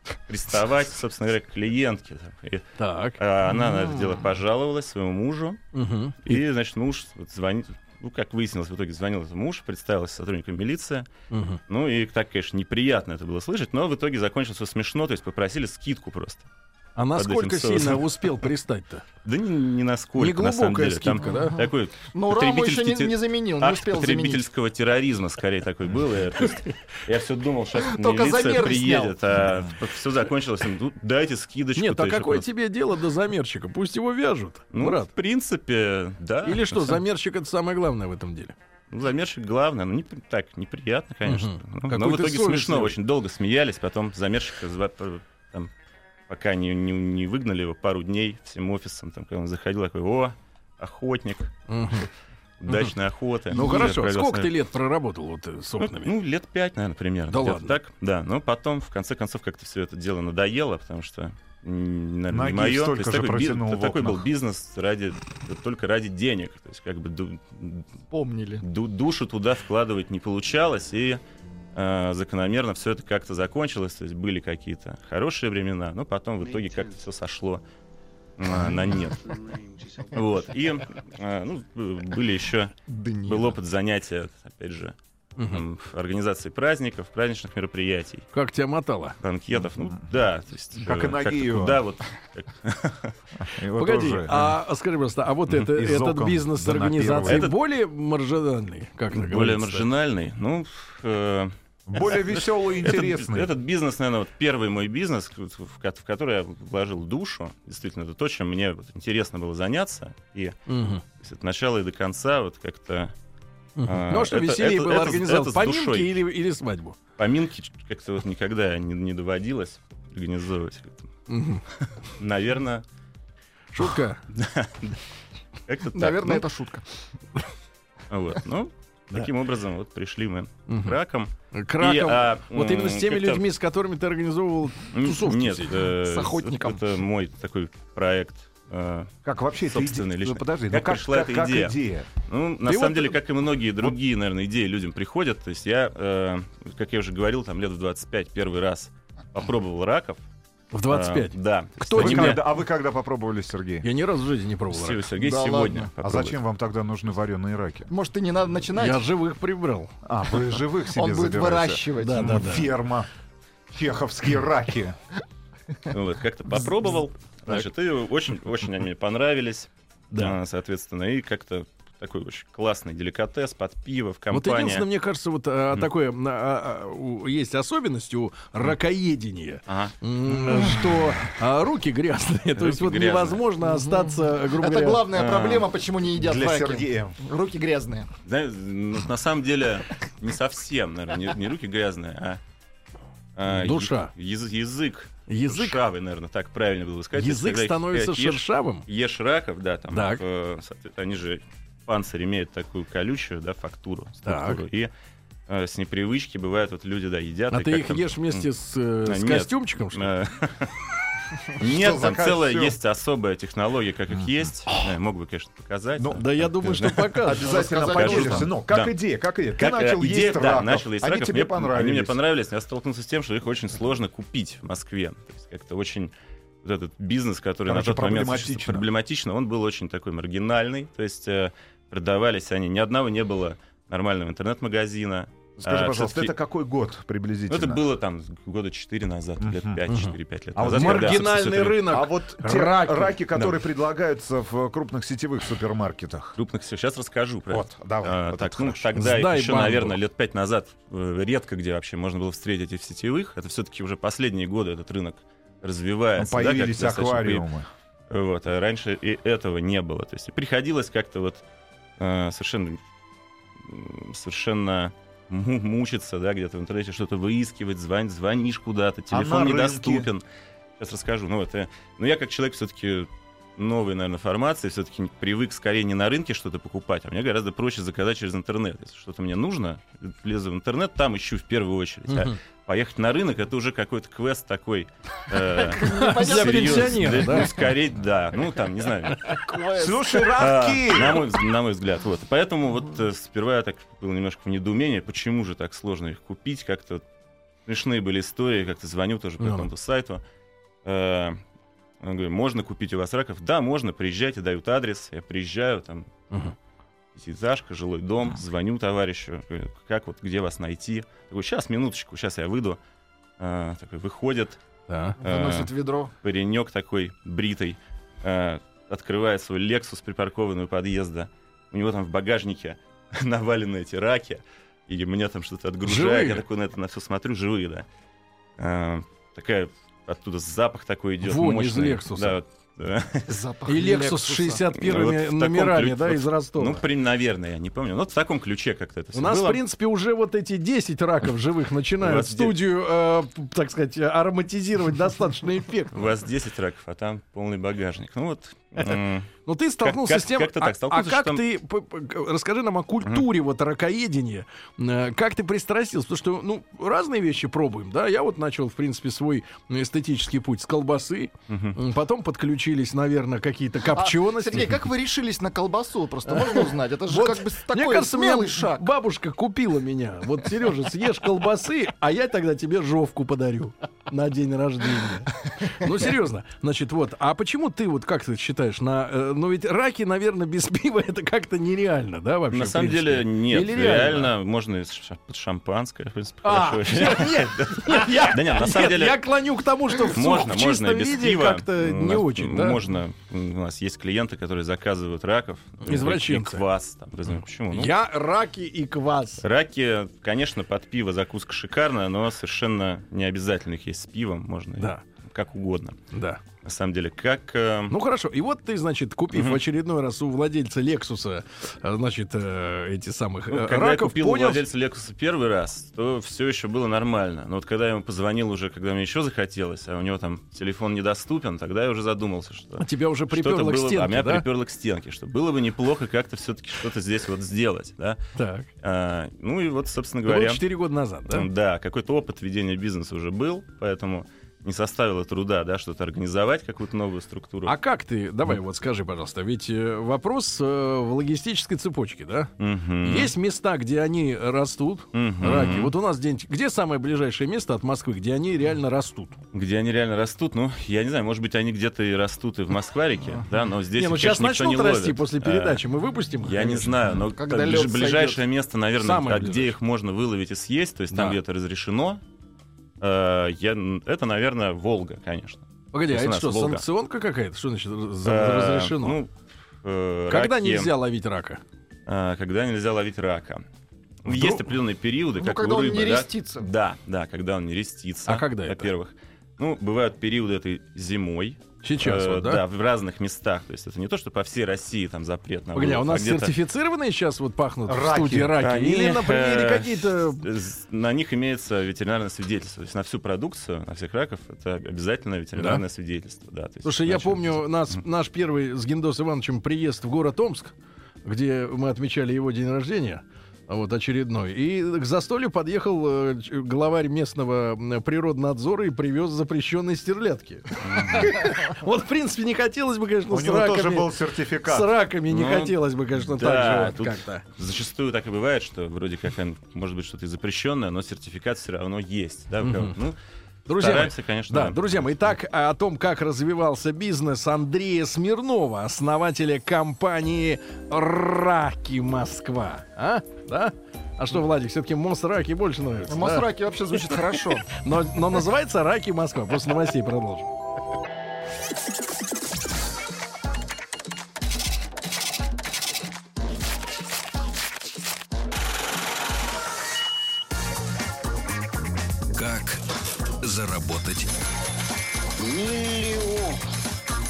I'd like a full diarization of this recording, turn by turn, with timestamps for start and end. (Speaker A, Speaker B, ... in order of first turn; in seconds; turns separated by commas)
Speaker A: 0.3-2.6, Speaker B: 2.8-3.2, Speaker A: 3.2-5.6, Speaker C: 3.6-4.2, Speaker B: 5.7-6.4, Speaker A: 6.2-11.1, Speaker B: 11.3-11.6, Speaker A: 11.7-16.4, Speaker B: 16.9-19.1, Speaker A: 17.1-18.3, Speaker A: 19.2-32.5, Speaker B: 20.2-21.6, Speaker C: 21.2-24.4, Speaker C: 27.8-29.1, Speaker B: 31.8-35.1, Speaker A: 34.7-37.0, Speaker B: 36.4-38.5, Speaker A: 38.9-45.7, Speaker B: 41.2-43.0, Speaker A: 46.3-51.5, Speaker B: 51.7-52.1, Speaker A: 52.6-54.5, Speaker B: 53.5-56.1, Speaker A: 55.8-67.9, Speaker B: 57.3-57.8, Speaker D: 62.3-64.2, Speaker C: 68.1-68.6, Speaker A: 68.6-71.2, Speaker A: 71.7-77.6, Speaker A: 78.4-84.9, Speaker C: 82.9-83.5, Speaker B: 85.4-85.6, Speaker A: 85.5-88.3, Speaker B: 88.3-89.2, Speaker A: 89.2-93.1, Speaker D: 90.8-91.8, Speaker D: 93.4-94.6, Speaker B: 93.8-99.9, Speaker D: 95.7-97.5, Speaker A: 97.2-97.5, Speaker A: 99.1-110.6, Speaker D: 101.9-103.5, Speaker B: 110.7-111.0, Speaker A: 111.2-113.1, Speaker B: 113.8-117.0, Speaker A: 113.9-116.2, Speaker A: 117.2-121.1, Speaker B: 121.3-121.6, Speaker A: 121.8-122.8, Speaker B: 123.7-124.2, Speaker A: 124.3-125.0, Speaker A: 125.7-126.5, Speaker C: 125.9-126.9, Speaker A: 128.1-133.4, Speaker B: 130.7-130.9, Speaker B: 131.5-135.8, Speaker A: 134.9-150.2, Speaker C: 136.0-136.8, Speaker D: 139.2-142.1, Speaker B: 142.7-143.2, Speaker B: 150.7-152.4, Speaker A: 150.9-152.5, Speaker D: 151.9-153.9, Speaker B: 153.8-155.1, Speaker A: 154.7-156.4, Speaker C: 155.1-155.9, Speaker D: 156.0-157.9, Speaker C: 157.9-159.0, Speaker B: 158.8-159.9, Speaker D: 160.0-163.1, Speaker C: 160.9-162.5, Speaker B: 162.0-162.7, Speaker D: 163.7-164.9, Speaker A: 165.9-174.8, Speaker B: 174.3-185.2, Speaker A: 179.7-180.8, Speaker A: 182.6-183.4, Speaker C: 183.6-188.1, Speaker A: 185.1-185.7, Speaker D: 186.2-187.2, Speaker A: 188.2-192.4, Speaker A: 193.3-204.9, Speaker B: 193.5-194.1, Speaker B: 195.3-195.8, Speaker B: 197.1-198.8, Speaker B: 199.9-200.2, Speaker B: 204.2-204.6, Speaker A: 205.5-208.5, Speaker B: 207.5-210.1, Speaker A: 209.0-210.8, Speaker A: 211.5-218.9, Speaker D: 211.6-212.8, Speaker D: 216.0-216.4, Speaker B: 216.2-217.6, Speaker D: 217.2-222.2, Speaker C: 217.3-218.5, Speaker A: 219.6-226.1, Speaker A: 226.6-236.3, Speaker D: 227.7-228.9, Speaker D: 235.6-237.8, Speaker A: 237.5-241.9, Speaker D: 239.4-239.8, Speaker B: 239.9-240.1, Speaker D: 240.5-246.3, Speaker B: 240.7-243.2, Speaker A: 246.3-257.4, Speaker D: 247.5-248.9, Speaker B: 248.9-250.0, Speaker D: 256.2-257.6, Speaker A: 258.1-261.4, Speaker A: 262.0-262.8, Speaker A: 263.6-270.2, Speaker D: 269.1-270.1, Speaker A: 270.8-289.4, Speaker B: 282.1-282.4, Speaker C: 285.5-287.6, Speaker B: 285.8-287.5, Speaker C: 289.2-290.3, Speaker D: 289.7-291.3, Speaker A: 290.3-297.0, Speaker A: 297.6-300.2, Speaker B: 299.4-299.7, Speaker A: 300.8-301.4, Speaker A: 302.0-306.1, Speaker A: 307.1-312.8, Speaker A: 313.4-314.6, Speaker B: 314.9-315.2, Speaker C: 315.2-316.1, Speaker A: 315.2-327.9, Speaker B: 325.8-326.4, Speaker A: 328.6-333.4, Speaker B: 331.2-332.4, Speaker C: 333.3-334.7, Speaker B: 333.7-336.8, Speaker A: 334.7-339.6, Speaker B: 339.1-346.1, Speaker A: 342.0-342.6, Speaker A: 345.9-351.4, Speaker B: 348.8-364.8, Speaker A: 361.5-361.8, Speaker C: 363.9-368.9, Speaker B: 366.3-384.3, Speaker A: 382.5-389.2, Speaker B: 386.4-392.8, Speaker A: 390.0-397.9, Speaker B: 395.9-396.6, Speaker B: 397.7-399.4, Speaker A: 399.4-406.0, Speaker B: 406.1-406.4, Speaker A: 406.6-407.9, Speaker B: 407.9-414.6, Speaker A: 409.3-409.6, Speaker A: 413.5-428.2, Speaker B: 422.8-424.4, Speaker B: 428.4-428.7, Speaker A: 428.8-430.6, Speaker B: 430.2-431.5, Speaker A: 431.3-437.8, Speaker B: 437.6-442.5, Speaker A: 442.6-443.3, Speaker B: 443.0-449.4, Speaker A: 445.1-445.9, Speaker A: 449.5-455.8, Speaker B: 453.9-457.0, Speaker A: 456.4-462.2, Speaker C: 457.4-458.4, Speaker B: 459.0-459.7, Speaker A: 463.0-466.8, Speaker B: 465.9-469.2, Speaker A: 468.2-470.9, Speaker B: 470.3-471.6, Speaker A: 472.1-473.6, Speaker A: 474.2-486.6, Speaker B: 474.2-474.6, Speaker C: 475.4-476.7, Speaker B: 478.3-478.9, Speaker B: 481.8-482.6, Speaker B: 485.7-490.4, Speaker D: 487.9-488.6, Speaker A: 488.6-497.9, Speaker B: 495.6-495.8, Speaker B: 496.8-517.4, Speaker A: 510.8-511.5, Speaker D: 513.3-514.9, Speaker A: 515.3-523.1, Speaker B: 522.6-523.0, Speaker B: 523.7-536.5, Speaker A: 523.7-524.9, Speaker C: 536.1-537.7, Speaker B: 537.7-540.5, Speaker E: 552.3-552.8, Speaker E: 553.4-554.3, Speaker E: 555.4-556.6